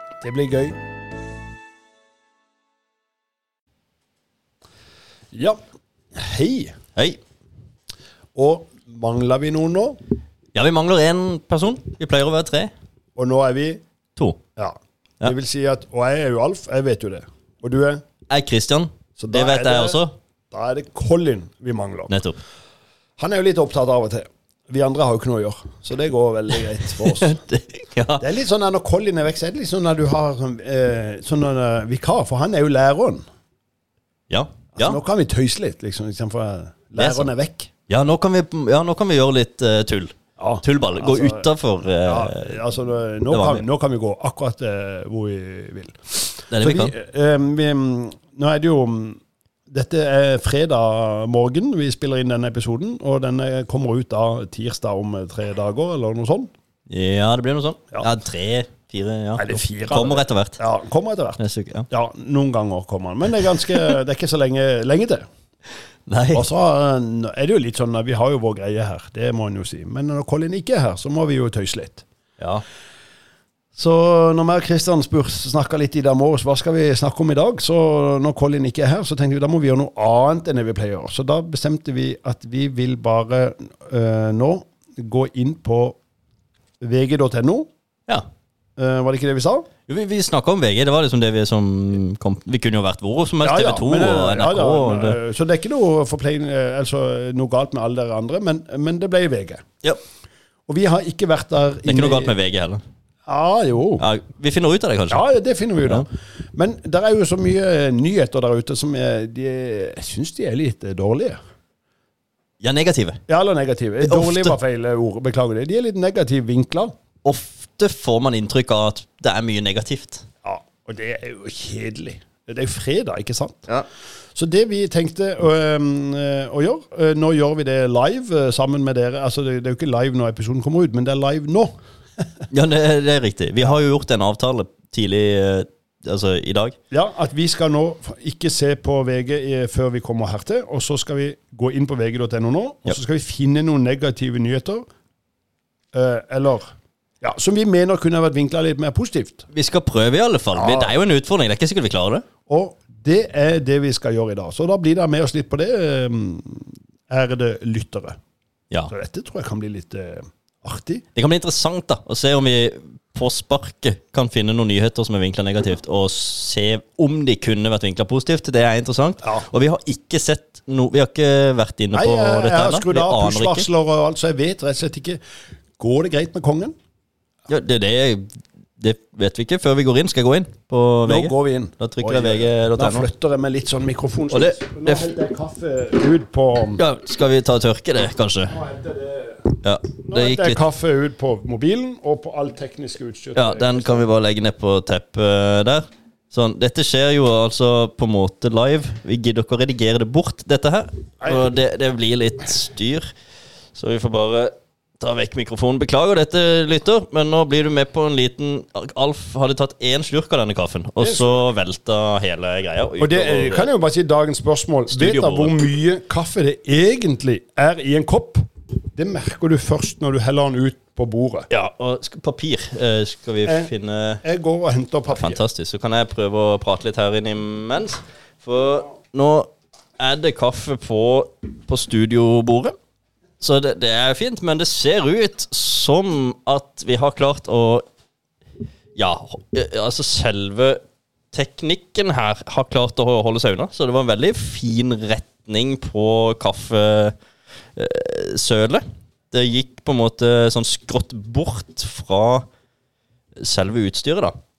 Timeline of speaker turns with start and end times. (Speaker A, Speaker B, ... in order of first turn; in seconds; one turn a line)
Speaker A: 0.2-0.8
Speaker A: 5.3-5.6
Speaker A: 6.1-6.8
Speaker A: 8.3-10.0
Speaker B: 10.6-12.7
Speaker A: 13.2-13.8
Speaker A: 14.6-18.0
Speaker B: 18.3-20.1
Speaker A: 19.2-20.0
Speaker A: 20.5-22.1
Speaker B: 22.1-22.4
Speaker A: 23.2-27.4
Speaker B: 26.9-28.2
Speaker A: 28.2-33.2
Speaker B: 34.3-35.0
Speaker A: 34.8-37.7
Speaker B: 37.0-37.3
Speaker B: 37.9-42.6
Speaker A: 40.4-41.5
Speaker A: 42.1-56.5
Speaker B: 43.3-43.6
Speaker B: 46.5-46.9
Speaker B: 56.9-60.6
Speaker A: 59.4-61.4
Speaker B: 61.4-61.9
Speaker A: 61.9-65.2
Speaker B: 66.1-66.5
Speaker A: 66.3-72.0
Speaker B: 72.4-72.6
Speaker A: 73.8-86.0
Speaker A: 86.8-87.7
Speaker A: 88.8-89.7
Speaker B: 89.9-95.2
Speaker A: 93.4-99.6
Speaker A: 100.7-102.3
Speaker B: 101.8-102.8
Speaker A: 103.3-104.0
Speaker B: 104.0-105.2
Speaker A: 105.1-111.4
Speaker B: 112.6-113.2
Speaker A: 113.3-116.9
Speaker B: 114.0-114.5
Speaker B: 117.2-120.2
Speaker A: 120.4-123.7
Speaker A: 124.3-131.7
Speaker B: 132.5-136.8
Speaker A: 136.9-144.9
Speaker A: 145.9-149.4
Speaker B: 149.5-152.2
Speaker A: 150.6-150.9
Speaker A: 152.5-158.2
Speaker A: 158.9-161.0
Speaker B: 161.2-173.7
Speaker A: 171.9-175.2
Speaker A: 175.8-176.8
Speaker B: 177.5-183.1
Speaker A: 181.1-186.8
Speaker B: 184.3-185.1
Speaker B: 186.8-188.6
Speaker A: 188.5-194.1
Speaker B: 189.6-190.6
Speaker B: 193.3-203.1
Speaker B: 203.8-213.7
Speaker A: 211.0-211.4
Speaker A: 213.0-218.4
Speaker B: 214.9-215.6
Speaker A: 219.0-221.5
Speaker B: 221.5-224.2
Speaker A: 223.4-223.7
Speaker A: 224.2-225.4
Speaker B: 225.1-232.7
Speaker B: 233.4-237.8
Speaker B: 239.0-240.8
Speaker B: 241.3-247.1
Speaker B: 247.8-252.4
Speaker B: 253.4-254.3